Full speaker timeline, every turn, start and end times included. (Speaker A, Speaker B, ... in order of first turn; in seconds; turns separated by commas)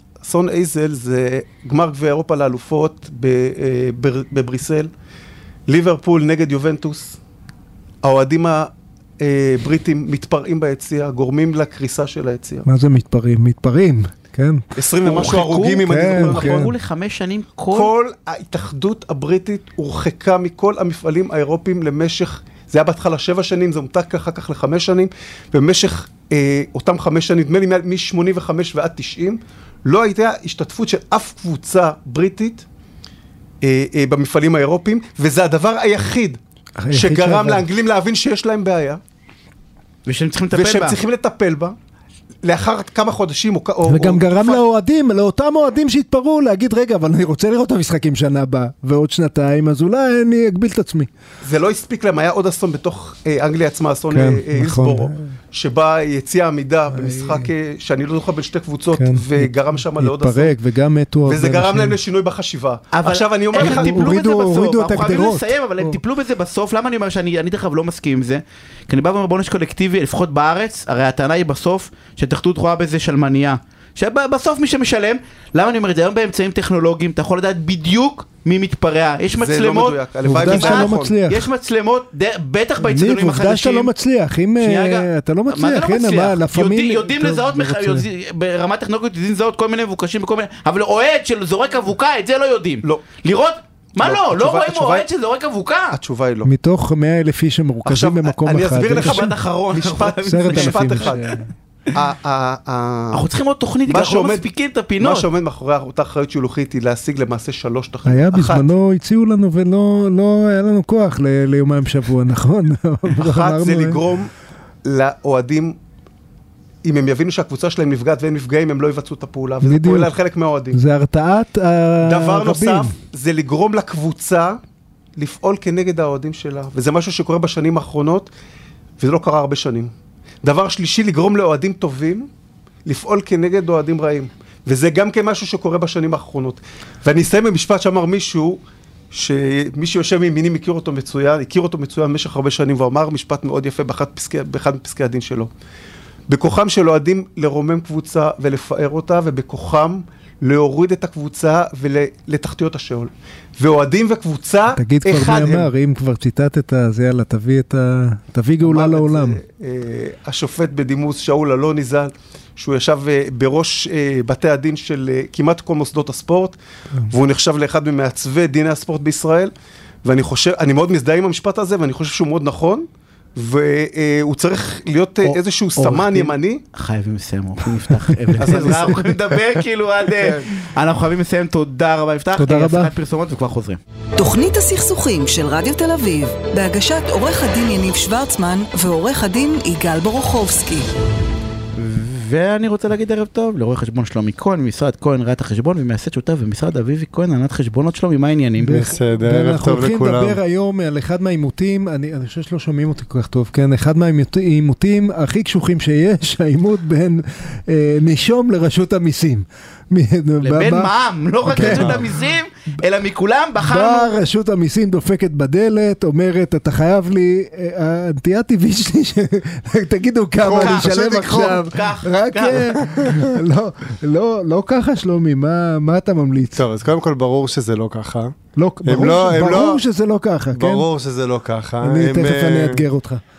Speaker A: 0.2-4.9, Speaker A: 5.7-7.2, Speaker A: 8.0-12.7, Speaker B: 12.7-14.6, Speaker A: 14.7-16.7, Speaker C: 15.0-17.9, Speaker B: 15.9-16.7, Speaker A: 17.7-32.6, Speaker A: 33.6-36.4, Speaker B: 36.8-37.6, Speaker A: 36.9-39.0, Speaker C: 40.0-41.0, Speaker A: 40.5-41.8, Speaker A: 42.4-44.6, Speaker B: 43.8-51.1, Speaker A: 51.4-60.5, Speaker B: 54.1-55.3, Speaker B: 56.9-57.5, Speaker B: 58.9-62.0, Speaker A: 61.2-64.1, Speaker C: 62.9-83.9, Speaker B: 63.5-66.0, Speaker A: 79.4-81.1, Speaker B: 80.2-81.5, Speaker B: 82.8-88.0, Speaker C: 84.6-96.0, Speaker A: 94.0-95.0, Speaker A: 95.9-96.5, Speaker B: 96.4-99.3, Speaker A: 97.8-101.3, Speaker C: 98.9-101.1, Speaker B: 100.2-101.5, Speaker A: 101.9-103.3, Speaker C: 103.1-105.3, Speaker A: 103.9-104.4, Speaker A: 105.0-108.7, Speaker B: 108.0-114.0, Speaker A: 113.1-114.3, Speaker A: 114.8-115.8, Speaker A: 116.8-120.8, Speaker B: 119.6-120.1, Speaker B: 120.7-122.9, Speaker A: 122.0-124.6, Speaker A: 125.2-128.3, Speaker A: 129.0-129.9, Speaker A: 130.4-132.3, Speaker A: 132.8-138.6, Speaker A: 139.1-145.5, Speaker A: 146.3-155.7, Speaker B: 154.7-159.4, Speaker A: 158.6-169.5, Speaker A: 170.0-176.6, Speaker C: 175.8-183.8, Speaker A: 178.4-178.9, Speaker D: 178.4-179.1, Speaker B: 182.4-182.9, Speaker E: 184.2-190.9, Speaker C: 191.8-199.0, Speaker B: 198.6-210.9, Speaker D: 198.7-200.4, Speaker C: 210.4-214.2, Speaker B: 211.4-212.2, Speaker D: 211.6-212.0, Speaker B: 213.6-226.6, Speaker D: 220.4-221.6, Speaker C: 220.6-222.8, Speaker D: 222.9-223.3, Speaker D: 226.6-229.8, Speaker B: 228.6-230.8, Speaker D: 230.5-232.9, Speaker B: 231.8-233.2